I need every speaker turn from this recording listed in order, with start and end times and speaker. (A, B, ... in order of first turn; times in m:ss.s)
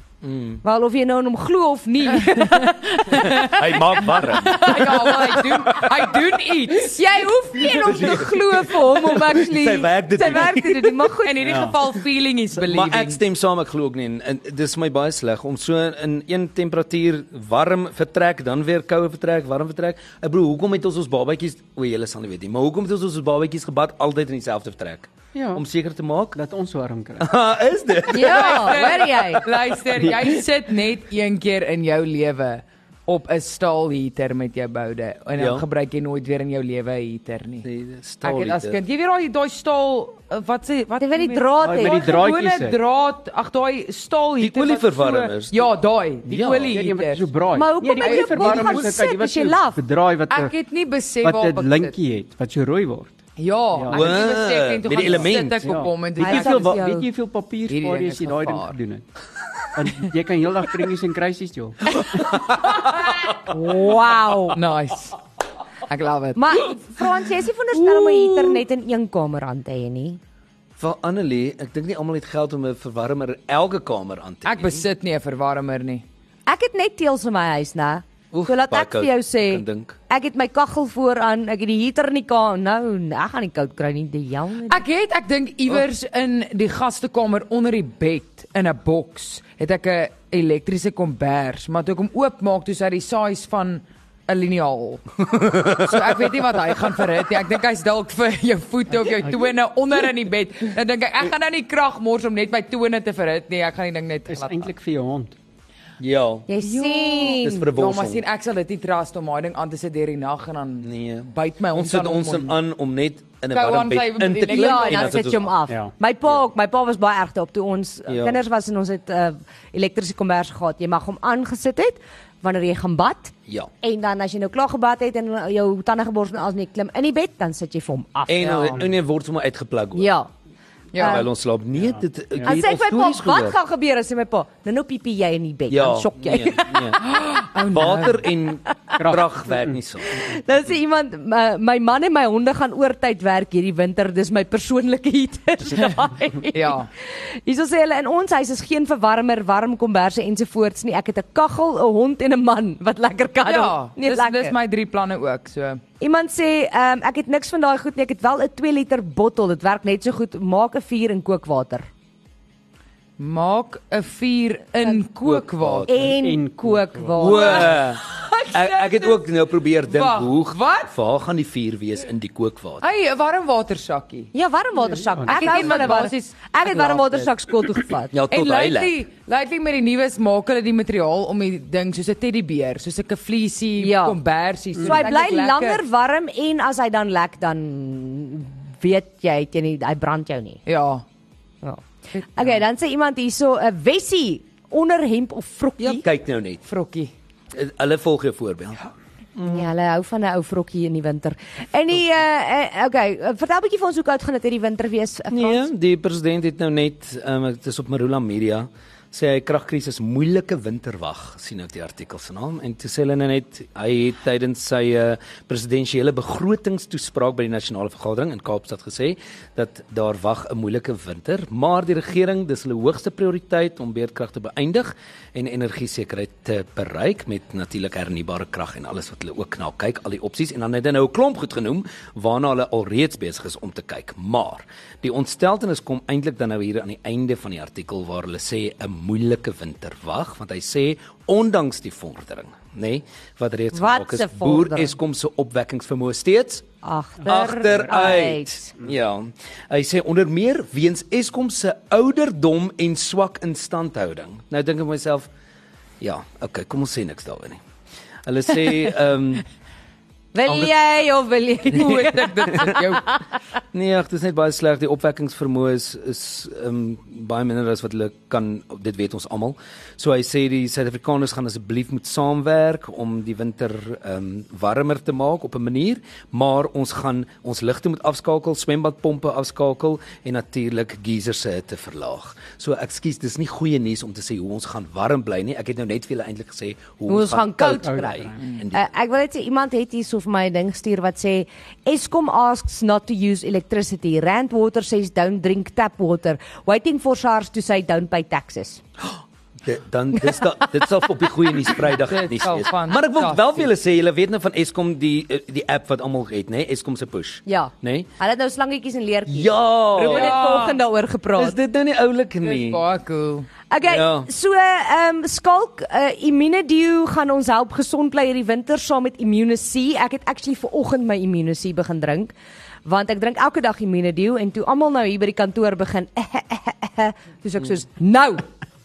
0:00.2-0:00.6 A
0:00.6-0:03.5 B
0:02.2-0:07.8 C
0:03.1-0:05.0 A
0:04.7-0:05.2 B
0:06.9-0:11.4 B
0:07.7-0:11.1 A
0:11.2-0:13.2 C
0:11.4-0:11.8 D
0:12.5-0:26.4 A
0:25.3-0:25.6 D
0:26.3-0:27.3 D
0:27.2-0:29.0 A
0:28.1-0:29.4 B
0:28.1-0:37.7 C
0:35.4-0:35.6 A
0:37.6-0:38.8 A
0:38.2-0:47.3 C
0:41.0-0:42.1 B
0:41.6-0:42.8 D
0:44.4-0:45.7 A
0:46.3-0:46.8 A
0:46.3-0:50.5 D
0:47.5-0:49.8 B
0:48.0-0:48.8 C
0:50.3-0:52.0 C
0:51.2-0:53.2 D
0:53.4-0:56.8 C
0:53.7-0:54.2 D
0:53.9-0:55.9 A
0:54.9-0:59.0 D
0:56.2-0:57.1 B
0:57.7-0:58.8 C
0:59.7-1:02.0 D
1:02.5-1:02.8 A
1:03.5-1:04.6 B
1:04.5-1:05.2 C
1:05.9-1:06.6 C
1:06.3-1:10.2 B
1:10.8-1:14.8 A
1:14.4-1:16.0 C
1:16.5-1:24.8 B
1:18.3-1:20.0 A
1:24.7-1:44.7 C
1:35.3-1:36.2 A
1:44.3-1:45.4 D
1:46.0-1:46.5 A
1:46.5-1:47.7 B
1:46.6-1:52.6 C
1:47.3-1:48.2 A
1:50.8-1:55.5 A
1:53.5-1:55.3 C
1:54.5-2:08.8 B
1:58.1-1:58.4 A
2:08.3-2:10.1 A
2:08.4-2:08.8 C
2:10.0-2:10.3 B
2:10.9-2:11.2 C
2:11.0-2:11.2 B
2:11.0-2:13.6 A
2:12.4-2:12.6 D
2:12.4-2:16.9 B
2:15.7-2:20.2 A
2:17.0-2:18.2 C
2:19.0-2:19.8 D
2:20.2-2:34.5 B
2:26.5-2:26.9 C
2:33.4-2:35.8 C
2:36.0-2:41.9 B
2:43.2-2:45.9 C
2:45.2-2:46.1 A
2:45.9-2:47.8 B
2:46.0-2:47.4 D
2:47.2-2:52.8 A
2:47.2-2:49.2 C
2:49.9-2:50.9 C
2:52.8-2:54.3 C
2:54.3-2:58.1 B
2:55.1-2:56.0 D
2:55.2-2:57.2 C
2:58.1-2:58.9 A
2:58.3-3:05.8 C
3:03.8-3:04.2 B
3:04.8-3:10.6 B
3:10.6-3:11.0 C
3:11.6-3:16.0 B
3:15.8-3:16.6 A
3:16.6-3:17.1 C
3:17.5-3:19.7 A
3:19.4-3:25.7 B
3:25.3-4:06.6 A
4:03.7-4:04.9 B
4:06.8-4:08.7 B
4:07.2-4:15.3 A
4:16.0-4:17.6 A
4:18.2-4:19.4 A
4:20.3-4:23.2 B
4:21.7-4:23.0 C
4:23.7-4:48.9 A
4:47.1-4:58.8 B
4:47.8-4:48.3 D
4:59.0-5:08.1 A
5:02.0-5:03.7 C
5:07.4-5:11.6 B
5:09.3-5:10.4 A
5:10.0-5:10.8 C
5:11.4-5:12.8 A
5:12.4-5:13.5 C
5:13.7-5:22.3 B
5:13.8-5:14.3 A
5:22.8-5:28.4 B